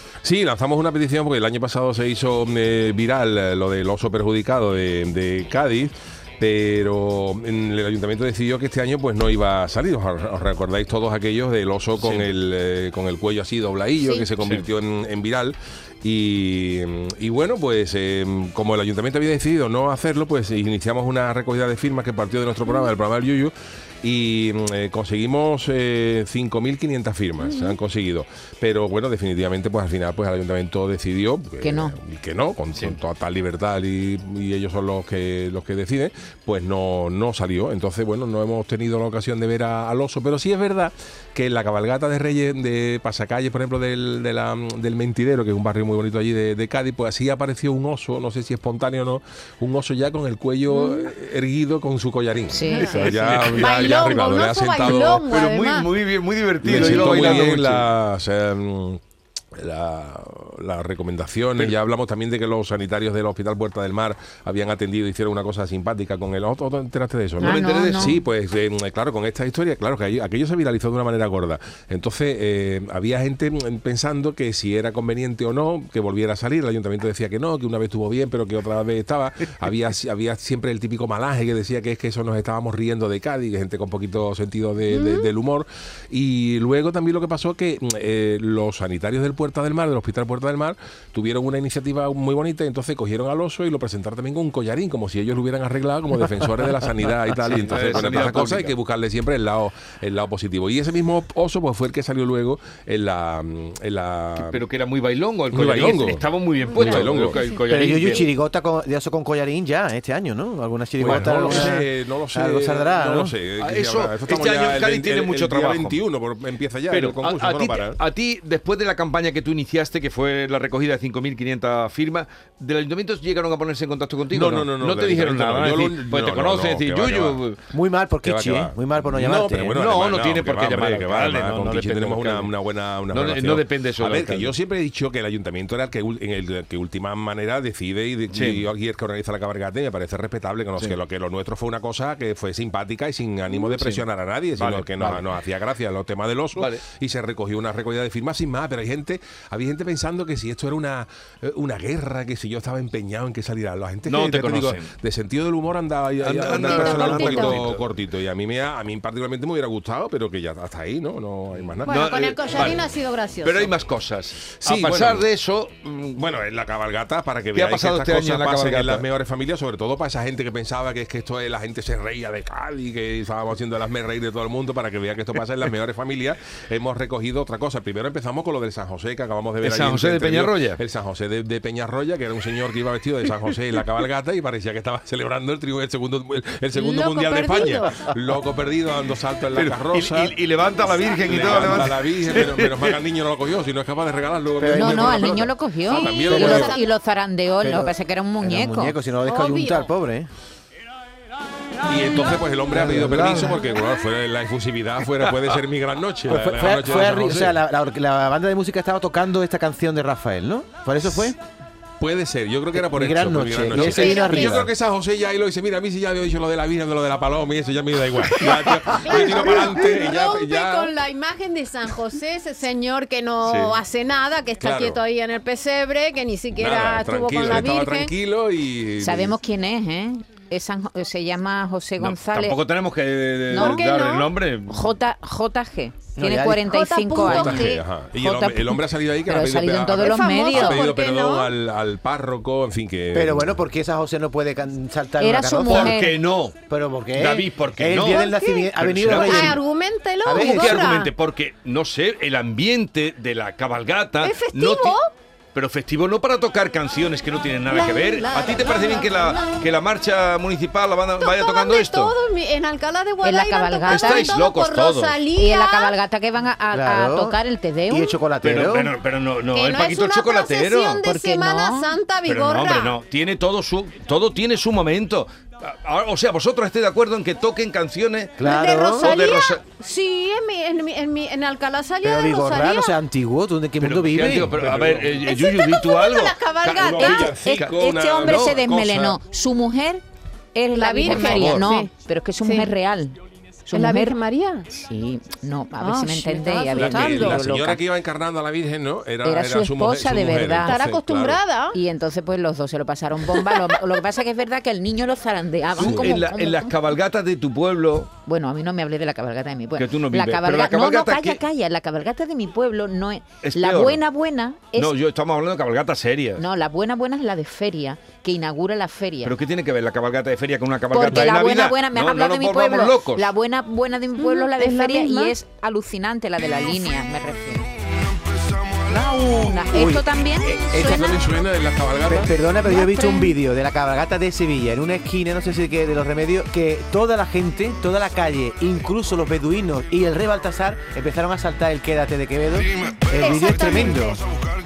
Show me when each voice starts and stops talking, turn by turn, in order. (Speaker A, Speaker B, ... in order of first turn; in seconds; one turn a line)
Speaker A: 0.2-55.3
Speaker B: 12.0-12.2
Speaker C: 14.0-14.3
Speaker B: 14.4-14.6
Speaker C: 27.4-27.8
Speaker D: 31.6-32.0
Speaker C: 50.7-51.1
Speaker D: 52.5-53.0
Speaker C: 52.7-55.9
Speaker B: 52.8-54.0
Speaker B: 54.8-57.9
Speaker A: 56.6-59.0
Speaker A: 59.5-104.6
Speaker D: 67.4-68.2
Speaker B: 67.4-68.2
Speaker C: 84.9-85.3
Speaker B: 97.3-98.7
Speaker B: 104.4-108.3
Speaker A: 105.5-107.4
Speaker C: 106.6-107.6
Speaker E: 107.7-113.3
Speaker A: 111.0-118.0
Speaker B: 113.6-116.0
Speaker B: 116.9-127.6
Speaker A: 124.3-127.4
Speaker E: 127.7-129.8
Speaker A: 128.2-162.1
Speaker B: 129.8-132.5
Speaker B: 133.1-134.5
Speaker B: 138.3-138.6
Speaker B: 143.5-144.0
Speaker B: 144.6-145.2
Speaker B: 146.6-146.8
Speaker B: 154.1-154.9
Speaker B: 156.2-157.8
Speaker C: 156.5-157.6
Speaker B: 161.5-162.9
Speaker C: 161.8-163.7
Speaker B: 163.4-166.2
Speaker A: 164.5-165.3
Speaker A: 166.1-190.3
Speaker B: 167.5-169.0
Speaker B: 179.6-180.8
Speaker C: 186.7-188.1
Speaker B: 189.5-193.0
Speaker A: 191.2-196.7
Speaker E: 194.6-195.5
Speaker D: 194.7-198.9
Speaker C: 195.9-196.9
Speaker E: 196.3-196.7
Speaker E: 197.6-200.3
Speaker C: 199.2-199.9
Speaker A: 201.9-207.6
Speaker E: 202.7-203.6
Speaker E: 206.3-211.4
Speaker A: 212.0-220.9
Speaker E: 212.7-214.7
Speaker C: 213.8-214.6
Speaker C: 219.0-228.1
Speaker B: 223.4-223.8
Speaker A: 224.6-225.0
Speaker A: 226.5-229.3
Speaker D: 229.0-232.6
Speaker B: 232.0-234.9
Speaker D: 233.5-233.8
Speaker C: 233.5-234.3
Speaker D: 234.7-240.8
Speaker E: 236.2-236.7
Speaker C: 236.6-237.8
Speaker A: 237.2-243.6
Speaker C: 239.9-241.5
Speaker E: 243.1-246.1
Speaker D: 245.2-246.2
Speaker B: 245.7-246.6
Speaker E: 246.7-249.6
Speaker B: 247.1-249.6
Speaker C: 248.0-251.1
Speaker E: 250.2-250.9
Speaker B: 250.3-255.0
Speaker C: 254.2-255.1
Speaker B: 255.5-262.1
Speaker C: 257.7-259.6
Speaker C: 261.2-265.9
Speaker D: 263.2-264.4
Speaker B: 263.9-265.2
Speaker D: 265.4-268.2
Speaker E: 266.7-267.4
Speaker E: 267.9-268.9
Speaker B: 268.4-271.0
Speaker C: 269.5-273.0
Speaker D: 271.0-271.9
Speaker B: 272.2-278.5
Speaker E: 278.4-279.1
Speaker C: 278.4-282.9
Speaker B: 279.0-279.6
Speaker E: 282.0-284.7
Speaker B: 283.8-287.7
Speaker A: 284.6-285.1
Speaker C: 285.1-287.4
Speaker A: 286.6-289.2
Speaker D: 287.0-290.0
Speaker D: 290.5-294.2
Speaker C: 290.7-291.9
Speaker B: 291.1-291.7
Speaker C: 292.4-292.7
Speaker C: 293.7-294.7
Speaker D: 294.7-297.8
Speaker C: 295.8-297.4
Speaker A: 296.7-301.4
Speaker D: 299.2-300.8
Speaker C: 300.7-301.8
Speaker D: 301.7-306.8
Speaker B: 305.8-308.1
Speaker A: 305.8-306.1
Speaker D: 308.2-314.9
Speaker B: 309.8-311.4
Speaker B: 313.4-314.0
Speaker B: 314.8-316.4
Speaker D: 316.4-319.3
Speaker B: 319.2-323.3
Speaker D: 320.9-327.7
Speaker C: 324.2-325.4
Speaker E: 328.8-331.1
Speaker D: 329.4-331.2
Speaker A: 330.8-332.3
Speaker E: 332.1-344.2
Speaker D: 332.6-333.4
Speaker C: 343.1-344.2